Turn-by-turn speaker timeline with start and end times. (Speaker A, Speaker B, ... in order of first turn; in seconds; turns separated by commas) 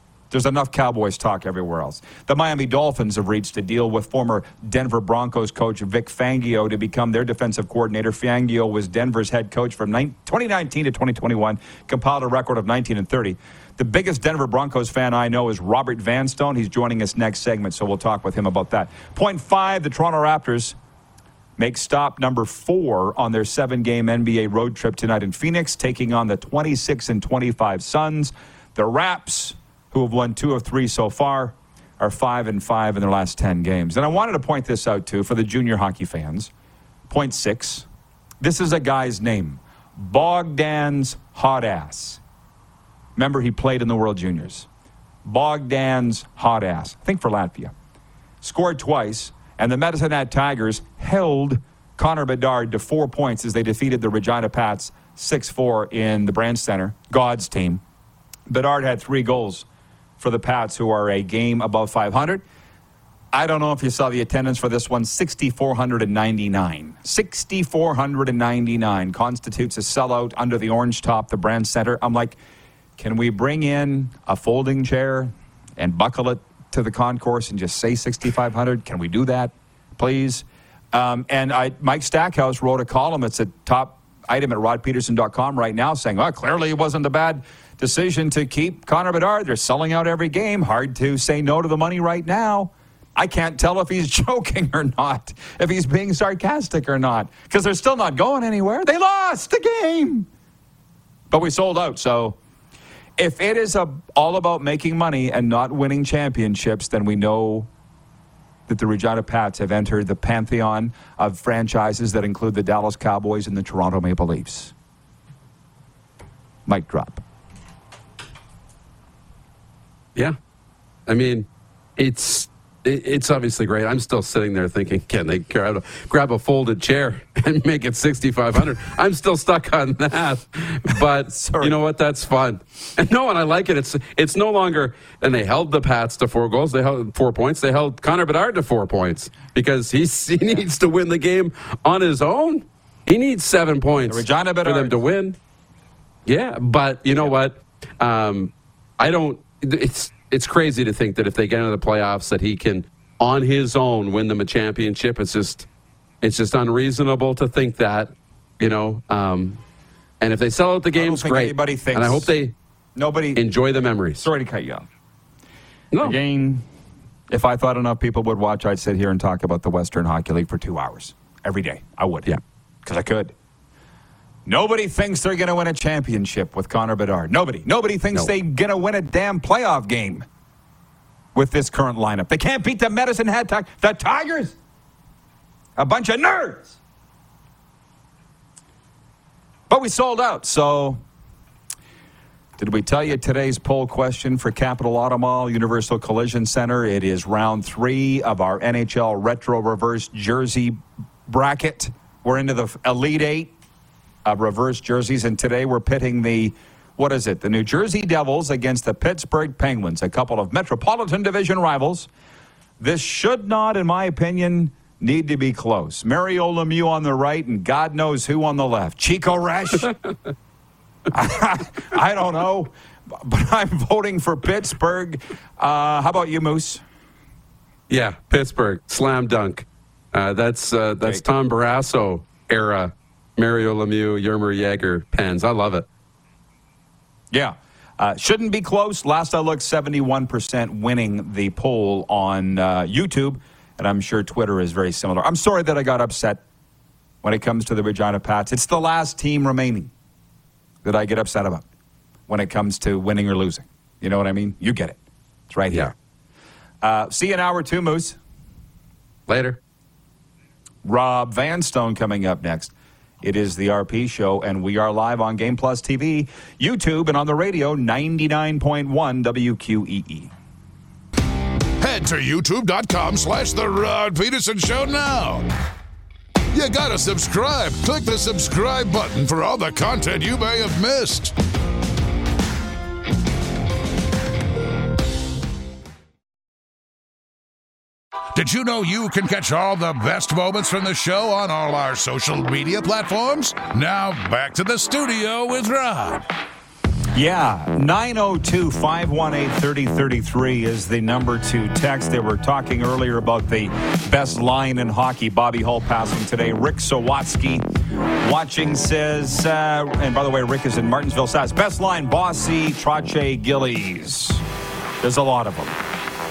Speaker A: 0.3-20.8, Speaker A: 21.6-36.5, Speaker A: 37.1-37.9, Speaker A: 38.4-42.2, Speaker A: 43.1-44.7, Speaker A: 45.2-47.7, Speaker A: 48.4-57.8, Speaker A: 58.5-59.6, Speaker A: 60.2-62.4, Speaker A: 63.3-72.4, Speaker A: 73.0-100.3, Speaker A: 101.3-102.4, Speaker A: 103.2-107.7, Speaker A: 108.7-114.7, Speaker A: 116.7-117.2, Speaker B: 121.1-145.4, Speaker A: 131.3-131.7, Speaker A: 144.1-144.9, Speaker B: 146.2-155.7, Speaker B: 156.2-159.6, Speaker B: 160.2-162.5, Speaker A: 160.9-162.3, Speaker A: 162.9-163.4, Speaker B: 163.3-164.2, Speaker A: 164.2-164.8, Speaker B: 165.9-166.2, Speaker A: 166.0-166.6, Speaker A: 167.3-173.3, Speaker A: 174.4-180.3, Speaker A: 181.3-184.6, Speaker A: 185.8-186.8, Speaker A: 189.7-191.0, Speaker A: 192.6-203.5, Speaker A: 204.2-212.1, Speaker A: 212.8-219.9, Speaker A: 221.1-226.8, Speaker B: 227.9-235.8, Speaker A: 237.3-246.4, Speaker A: 247.2-249.9, Speaker A: 250.8-251.6, Speaker A: 252.3-255.0, Speaker A: 255.5-255.9, Speaker A: 256.8-258.2, Speaker B: 259.3-259.6, Speaker A: 260.8-270.3, Speaker C: 271.8-275.4, Speaker C: 276.5-281.3, Speaker C: 288.3-296.2, Speaker A: 297.1-307.6, Speaker A: 308.2-314.4, Speaker A: 315.0-315.8